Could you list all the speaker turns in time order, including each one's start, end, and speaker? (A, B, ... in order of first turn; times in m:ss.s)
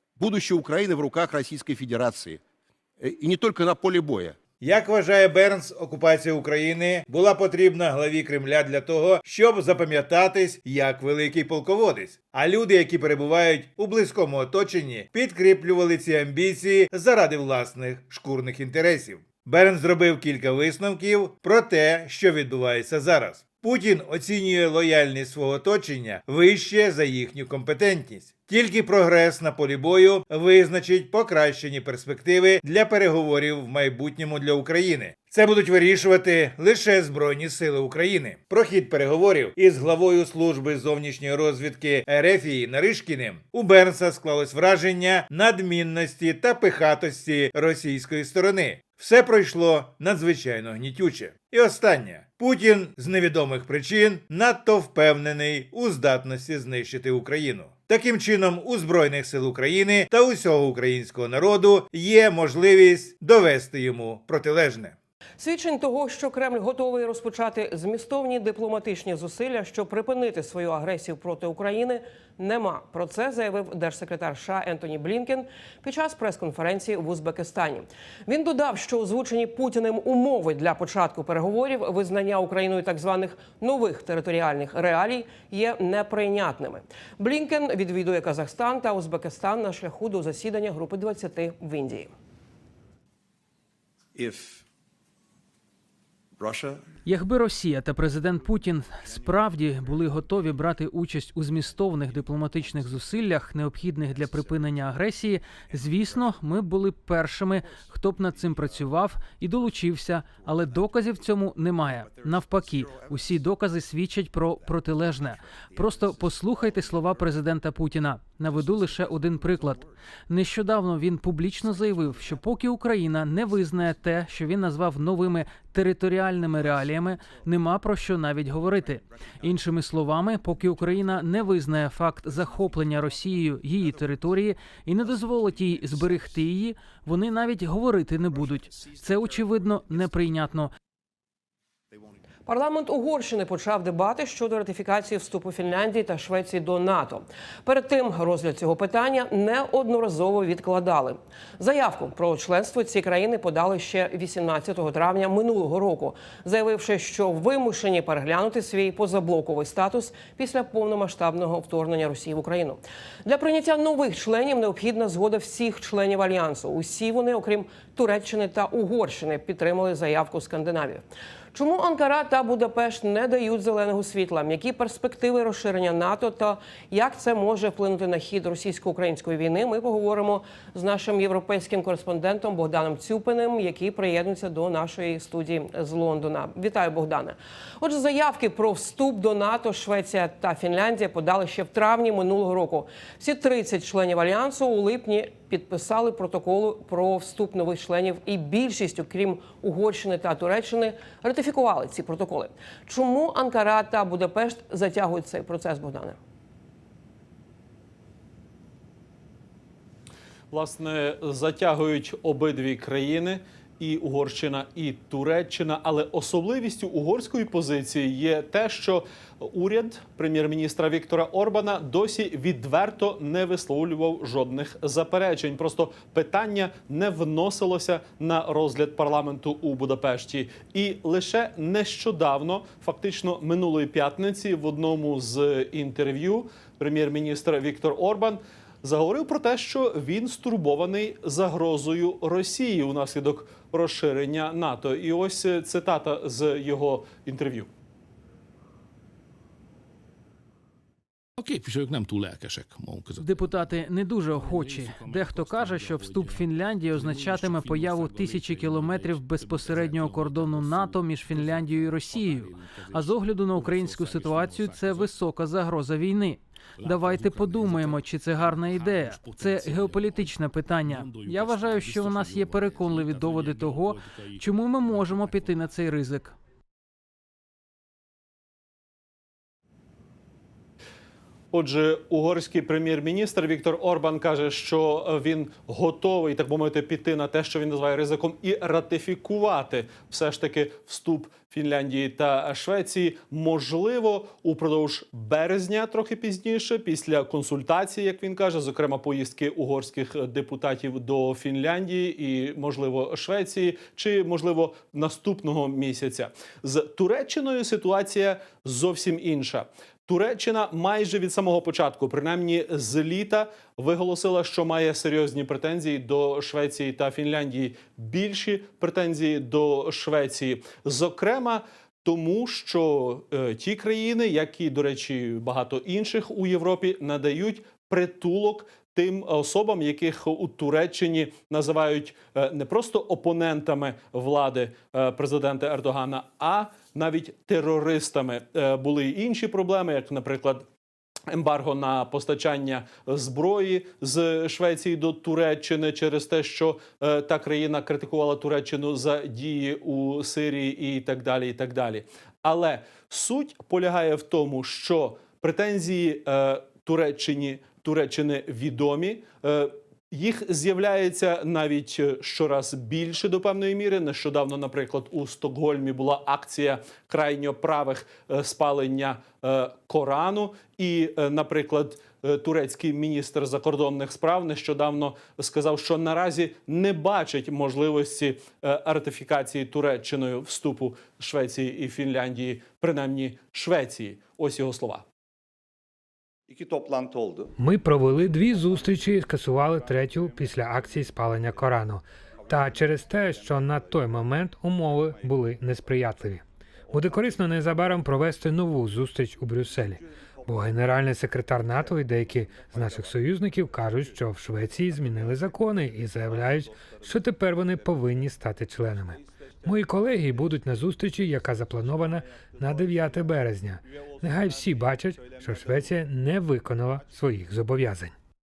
0:00.2-0:02.4 A
0:03.0-0:04.4 A
0:04.6-1:05.0 B
1:05.4-1:32.1 C
1:34.2-1:34.5 A
1:34.3-1:34.6 D
1:36.4-1:36.7 A
1:36.4-1:36.8 D
1:37.0-2:20.7 E
1:38.3-1:40.7 D
1:41.6-1:43.1 D
1:44.1-1:44.8 D
1:45.7-1:46.3 D
1:47.6-1:48.9 D
1:49.6-1:49.8 D
1:50.3-1:51.3 D
1:51.9-1:53.5 D
1:54.6-1:57.4 D
1:58.4-2:00.1 D
2:01.6-2:02.4 D
2:03.4-2:04.3 D
2:06.5-2:07.6 D
2:08.5-2:09.6 D
2:10.4-2:11.5 D
2:12.2-2:14.3 D
2:15.0-2:16.4 D
2:18.3-2:20.4 D
2:22.4-3:26.2 C
3:30.5-4:07.7 F
4:11.4-4:13.7 G
4:13.2-4:36.4 E
4:14.3-4:25.2 G
4:26.8-4:35.6 G
4:41.5-5:40.6 F
5:41.3-6:25.0 F
6:26.5-6:27.5 D
6:27.6-6:58.1 H
6:28.2-6:31.8 D
6:32.3-6:34.3 D
6:34.8-6:36.3 D
6:36.8-6:38.3 D
6:39.4-6:41.0 D
6:41.6-6:56.1 D
6:56.9-6:57.5 D